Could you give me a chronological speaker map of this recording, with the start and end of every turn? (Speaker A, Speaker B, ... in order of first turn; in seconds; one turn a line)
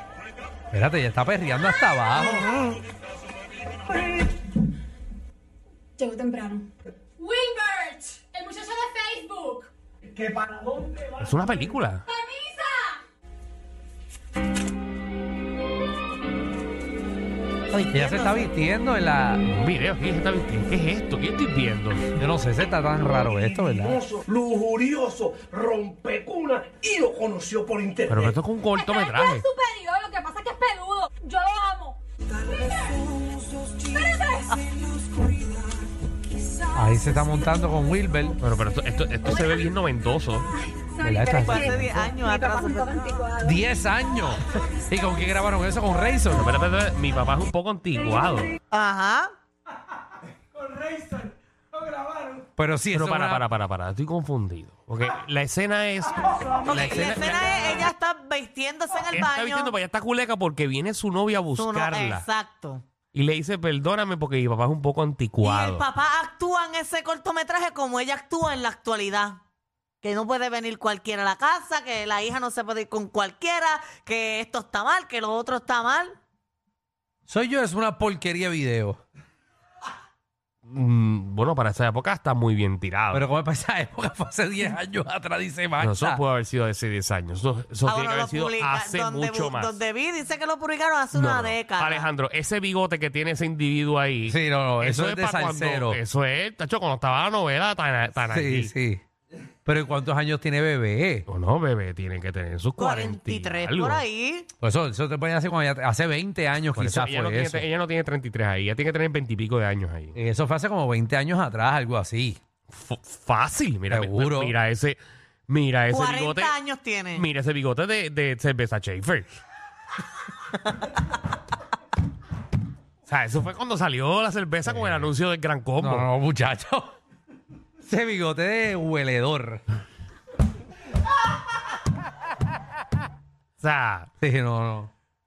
Speaker A: 0.7-2.5
Speaker B: 2.2-2.8
Speaker C: 6.0-6.7
Speaker C: 7.2-9.7
Speaker D: 11.1-12.1
Speaker C: 12.1-13.0
Speaker B: 17.7-18.5
Speaker A: 17.9-19.5
Speaker D: 19.5-22.1
Speaker A: 22.2-24.1
Speaker E: 24.1-28.3
Speaker D: 28.1-29.5
Speaker C: 28.7-32.0
Speaker C: 32.5-33.2
Speaker C: 33.8-35.5
Speaker A: 36.7-38.4
Speaker D: 38.4-40.5
Speaker A: 41.0-42.1
Speaker C: 41.0-41.6
Speaker B: 41.4-43.3
Speaker C: 42.2-43.5
Speaker A: 43.4-46.5
Speaker D: 46.3-48.5
Speaker B: 48.7-49.3
Speaker A: 52.6-53.5
Speaker D: 52.9-57.4
Speaker B: 56.6-59.7
Speaker D: 59.1-62.3
Speaker B: 61.5-62.8
Speaker D: 63.1-65.8
Speaker B: 65.4-69.4
Speaker B: 70.0-76.2
Speaker A: 77.3-79.0
Speaker D: 80.7-83.3
Speaker A: 83.1-86.2
Speaker D: 85.8-89.8
Speaker B: 87.8-92.1
Speaker D: 91.1-98.7
Speaker A: 94.3-96.0
Speaker A: 98.3-99.0
Speaker A: 99.7-101.3
Speaker D: 101.3-104.0
Speaker B: 102.8-104.5
Speaker A: 104.6-107.7
Speaker D: 106.7-110.2
Speaker A: 110.2-112.4
Speaker D: 112.7-116.6
Speaker A: 113.9-114.5
Speaker B: 115.9-117.3
Speaker D: 117.1-119.3
Speaker D: 123.1-126.1
Speaker A: 124.7-125.1
Speaker A: 125.8-127.0
Speaker A: 127.8-129.6
Speaker D: 133.6-134.1
Speaker A: 134.2-134.9